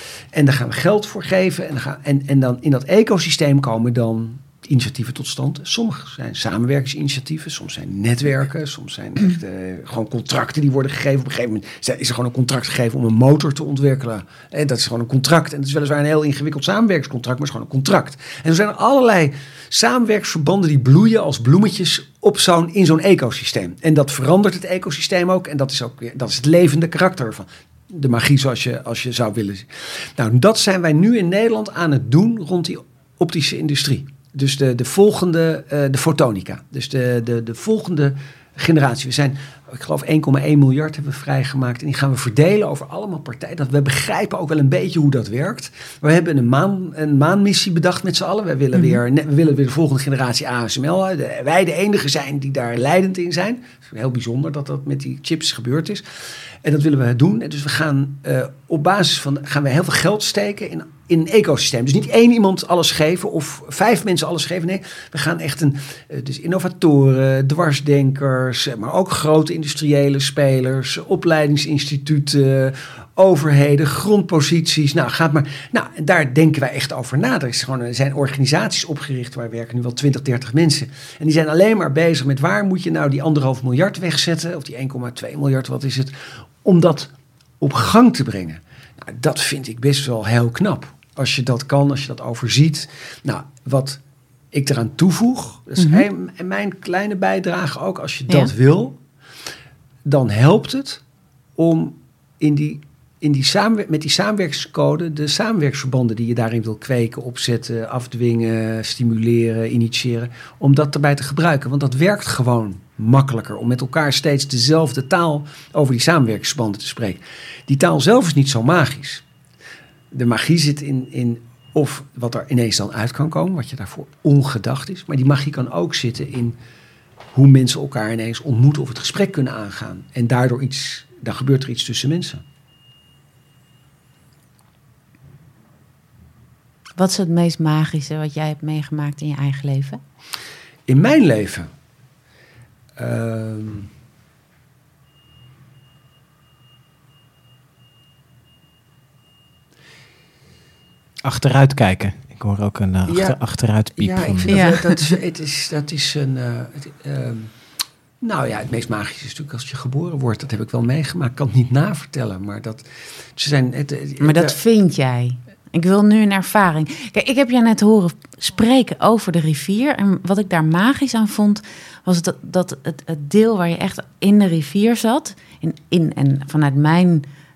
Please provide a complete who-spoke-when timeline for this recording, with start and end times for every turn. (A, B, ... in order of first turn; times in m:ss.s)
0:00.3-0:56.0 A
0:48.8-0:49.0 B
0:56.6-1:34.0 A
1:34.5-1:39.0 A
1:35.8-1:36.1 B
1:40.0-1:41.0 A
1:41.6-1:59.2 A
2:00.1-2:06.6 A
2:07.3-2:12.4 A
2:17.0-2:20.0 B
2:20.9-2:21.7 A
2:23.0-2:23.9 A
2:31.2-2:34.7 C
2:33.1-2:33.4 A
2:34.0-2:37.5 A
2:34.5-2:35.0 B
2:38.2-2:42.8 A
2:43.4-2:44.6 A
2:44.2-2:57.2 B